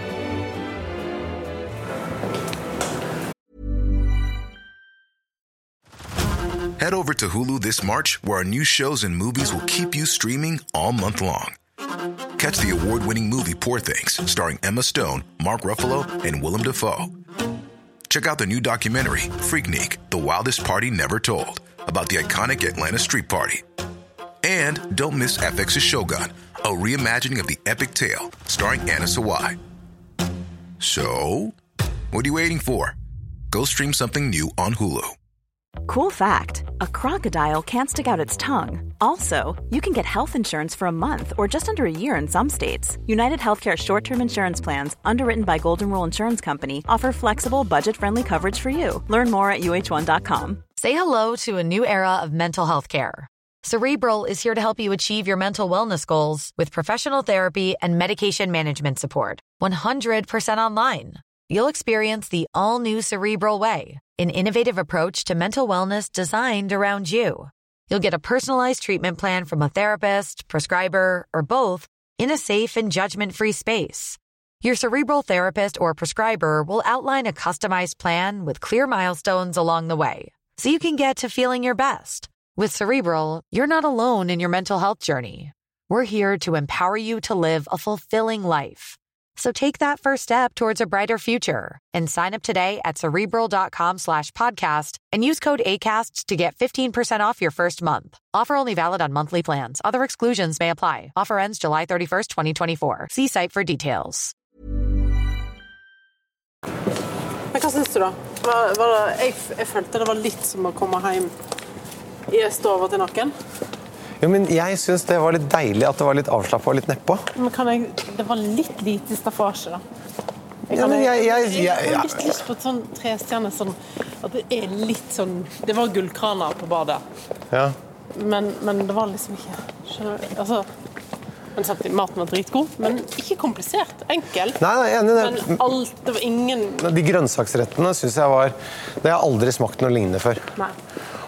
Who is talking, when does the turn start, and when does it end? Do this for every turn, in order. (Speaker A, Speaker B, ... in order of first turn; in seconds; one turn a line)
Speaker A: 6.8-11.6
Speaker A: 12.4-17.1
Speaker A: 18.1-23.6
Speaker A: 24.4-29.6
Speaker A: 30.8-31.5
Speaker A: 32.1-33.0
Speaker A: 33.5-35.1
Speaker B: 35.9-50.6
Speaker C: 50.8-104.3
Speaker D: 107.5-111.3
Speaker D: 112.3-113.3
Speaker E: 114.2-117.2
Speaker D: 117.3-119.8
Speaker E: 120.7-122.3
Speaker D: 120.7-127.0
Speaker E: 127.5-127.8
Speaker D: 128.1-130.7
Speaker D: 131.6-134.6
Speaker E: 134.6-135.6
Speaker D: 135.2-136.8
Speaker E: 136.8-140.5